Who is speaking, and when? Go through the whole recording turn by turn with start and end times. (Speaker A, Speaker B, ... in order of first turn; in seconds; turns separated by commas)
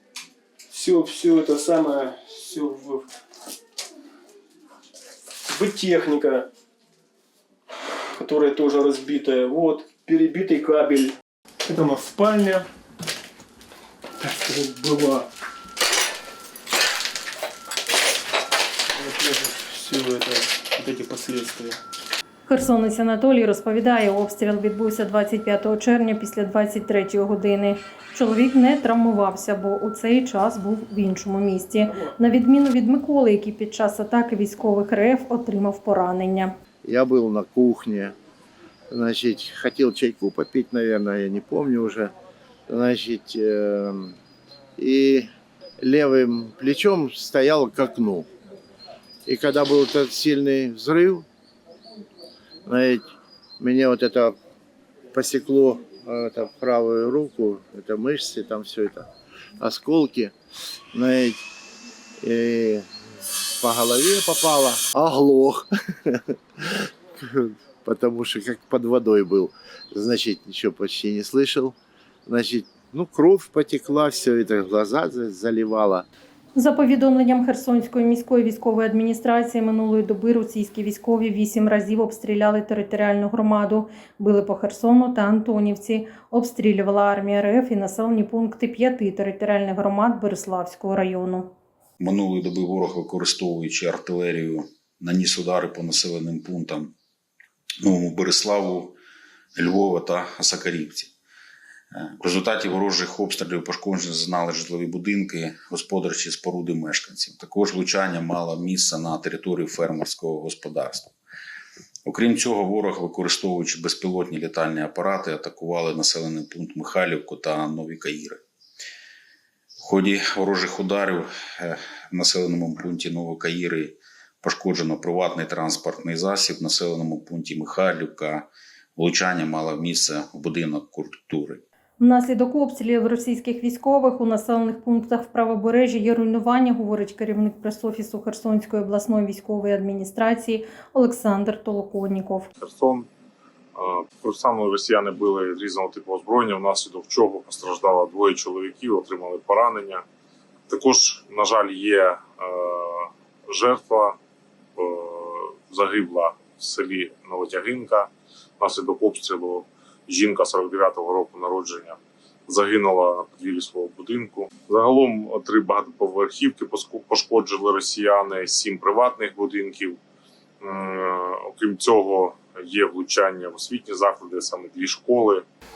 Speaker A: 0.7-3.0, Speaker A: 5.5-6.5, Speaker A: 8.2-11.1, Speaker A: 11.7-12.6, Speaker A: 14.2-14.9, Speaker A: 19.8-21.8, Speaker B: 22.5-36.5, Speaker C: 36.8-38.1, Speaker C: 38.9-42.1, Speaker C: 42.7-44.1, Speaker C: 44.8-45.3, Speaker C: 45.8-48.3, Speaker C: 49.2-51.2, Speaker C: 52.6-53.1, Speaker C: 53.6-54.3, Speaker C: 55.1-59.1, Speaker C: 59.6-60.3, Speaker C: 60.9-61.4, Speaker C: 62.2-62.9, Speaker C: 63.6-71.7, Speaker C: 72.2-76.0, Speaker B: 76.5-91.5, Speaker D: 92.0-96.9, Speaker D: 97.8-99.0, Speaker D: 99.5-101.1, Speaker D: 101.9-111.1, Speaker D: 112.0-118.4, Speaker D: 119.8-131.6, Speaker B: 132.0-142.5, Speaker E: 142.6-143.1, Speaker E: 143.7-150.0, Speaker E: 150.7-154.2, Speaker E: 154.8-170.0, Speaker E: 170.6-175.4